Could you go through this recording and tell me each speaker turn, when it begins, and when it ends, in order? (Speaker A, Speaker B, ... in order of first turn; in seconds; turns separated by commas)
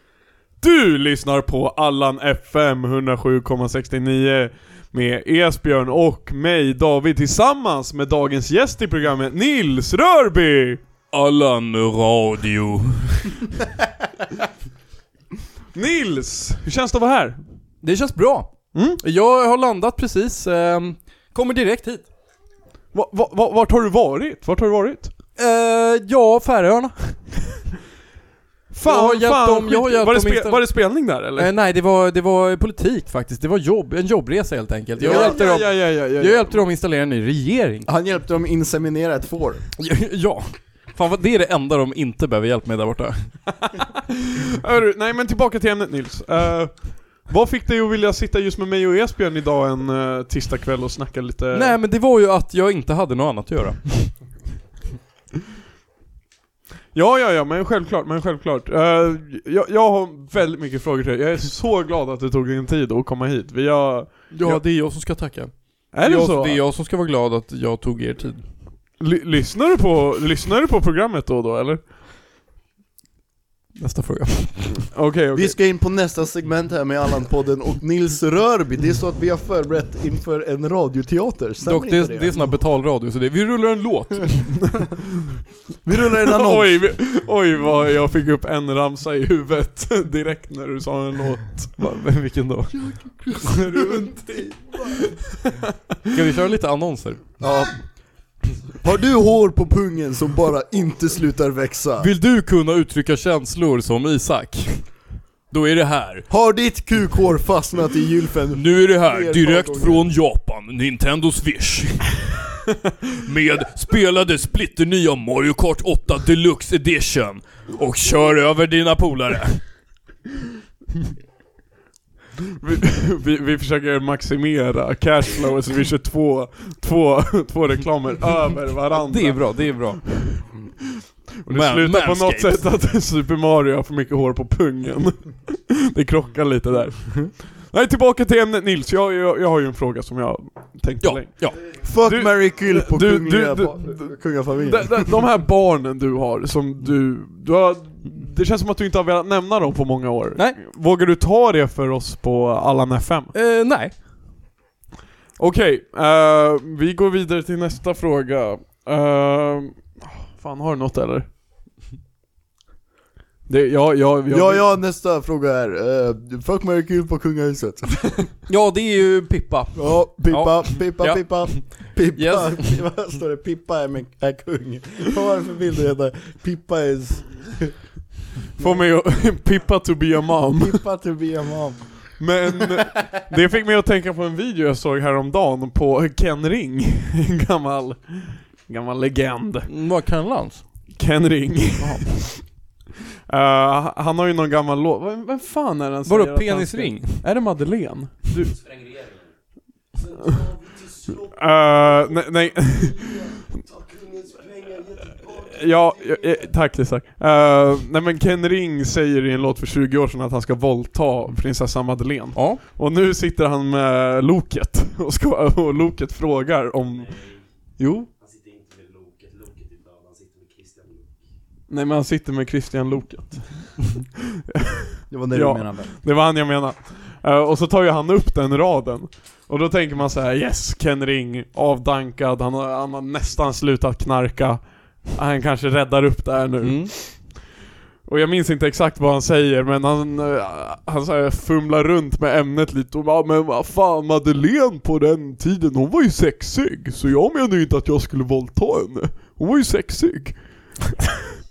Speaker A: 0.6-10.8, Speaker B: 11.1-13.5, Speaker A: 15.7-17.4, Speaker B: 17.8-22.1, Speaker A: 18.7-19.0, Speaker A: 22.9-25.1, Speaker B: 25.4-27.3, Speaker A: 28.7-31.5, Speaker B: 28.8-37.9, Speaker C: 35.0-35.4, Speaker A: 35.0-36.6, Speaker C: 37.9-39.6, Speaker B: 39.8-43.4, Speaker A: 43.6-51.8, Speaker B: 51.5-54.2, Speaker A: 56.9-64.6, Speaker B: 64.3-68.4, Speaker A: 65.9-66.6, Speaker A: 69.0-71.8, Speaker B: 73.8-74.8, Speaker A: 74.9-75.6, Speaker C: 75.3-82.4, Speaker B: 81.6-84.7, Speaker C: 85.8-86.8, Speaker A: 86.2-91.8, Speaker B: 91.8-94.1, Speaker C: 92.8-95.1, Speaker B: 96.1-97.3, Speaker C: 97.4-98.1, Speaker C: 98.8-102.1, Speaker B: 102.0-104.9, Speaker B: 105.5-106.3, Speaker C: 106.3-110.1, Speaker B: 108.5-112.3, Speaker B: 113.1-119.6, Speaker A: 122.6-130.5, Speaker B: 128.9-130.3, Speaker A: 131.4-153.3, Speaker B: 131.5-132.7, Speaker B: 141.0-141.7, Speaker C: 141.7-145.1, Speaker B: 153.3-154.0, Speaker A: 155.4-161.3, Speaker A: 163.5-164.7, Speaker C: 164.3-168.3, Speaker B: 168.5-172.8, Speaker C: 169.7-177.7, Speaker A: 178.6-180.8, Speaker C: 180.6-182.3, Speaker A: 182.2-189.7, Speaker B: 189.7-190.6, Speaker A: 190.9-192.6, Speaker B: 191.8-192.1, Speaker A: 193.3-198.7, Speaker B: 196.1-197.2, Speaker A: 200.2-200.6, Speaker A: 201.2-203.4, Speaker A: 205.3-218.1, Speaker B: 212.3-212.6, Speaker A: 221.7-224.7, Speaker C: 225.1-225.9, Speaker A: 225.3-237.4, Speaker B: 236.6-236.9, Speaker A: 238.0-251.0